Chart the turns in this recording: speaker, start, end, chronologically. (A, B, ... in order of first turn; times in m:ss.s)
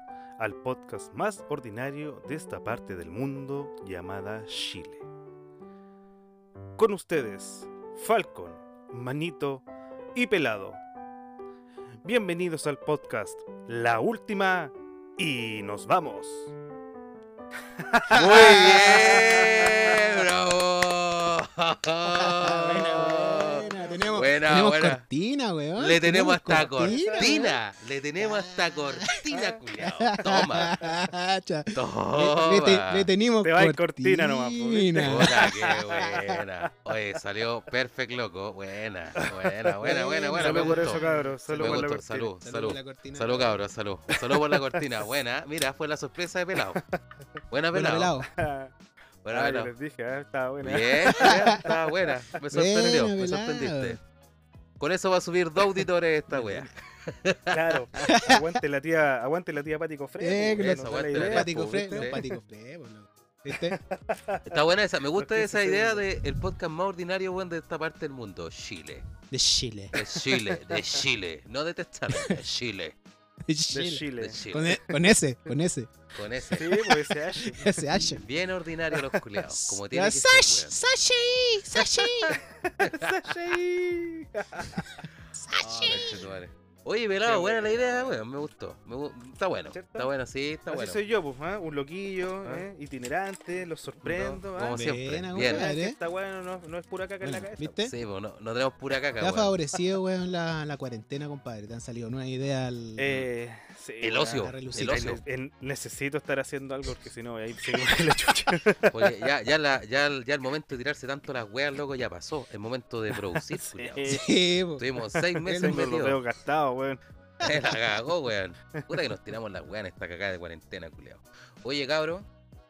0:00.4-0:05.1 A
0:06.8-0:10.8 A
0:12.0-0:16.5 A
0:17.8-0:20.0 A
0:18.1-0:25.0 B
0:22.1-0:27.6 C
0:23.4-0:24.3 A
0:25.8-0:30.8 B
0:26.5-0:27.4 A
0:28.2-0:29.2 C
0:29.3-0:29.6 A
0:29.8-0:35.5 C
0:31.7-0:33.1 B
0:33.4-0:36.7 A
0:35.0-0:41.0 B
0:39.2-0:42.3 A
0:39.8-0:41.8 C
0:41.6-0:46.8 B
0:42.4-0:43.6 C
0:44.1-0:44.8 A
0:46.7-0:47.0 A
0:47.5-0:48.2 B
0:47.7-0:48.3 C
0:48.3-0:48.7 A
0:49.2-0:49.7 B
0:49.3-0:52.4 A
0:50.6-0:54.0 B
0:51.1-0:51.6 C
0:52.5-0:54.0 C
0:54.8-0:58.1 B
0:56.3-0:56.7 C
0:57.5-1:02.3 A
0:58.0-0:58.4 C
1:00.2-1:03.8 C
1:00.5-1:02.2 B
1:03.5-1:04.6 A
1:04.4-1:09.0 B
1:05.2-1:06.0 A
1:09.3-1:10.0 C
1:09.9-1:13.0 B
1:10.2-1:10.8 A
1:12.1-1:12.4 C
1:13.5-1:15.9 C
1:13.7-1:15.1 A
1:14.2-1:14.8 B
1:16.1-1:16.8 B
1:16.5-1:17.9 A
1:17.4-1:18.2 C
1:18.1-1:20.8 B
1:18.9-1:19.2 A
1:19.5-1:22.4 C
1:21.8-1:23.3 B
1:22.4-1:24.9 A
1:24.8-1:26.2 C
1:25.5-1:31.0 B
1:27.2-1:28.2 A
1:29.7-1:30.1 A
1:30.7-1:37.8 A
1:34.0-1:35.6 B
1:34.7-1:36.0 C
1:37.2-1:37.9 C
1:37.9-1:39.6 B
1:39.2-1:43.1 C
1:43.0-1:49.2 A
1:44.0-1:45.2 B
1:44.2-1:45.2 C
1:48.9-1:54.2 B
1:53.3-1:54.3 A
1:54.1-1:54.9 C
1:54.8-1:56.2 B
1:55.1-1:57.0 A
1:55.4-1:55.9 C
1:57.4-2:02.3 B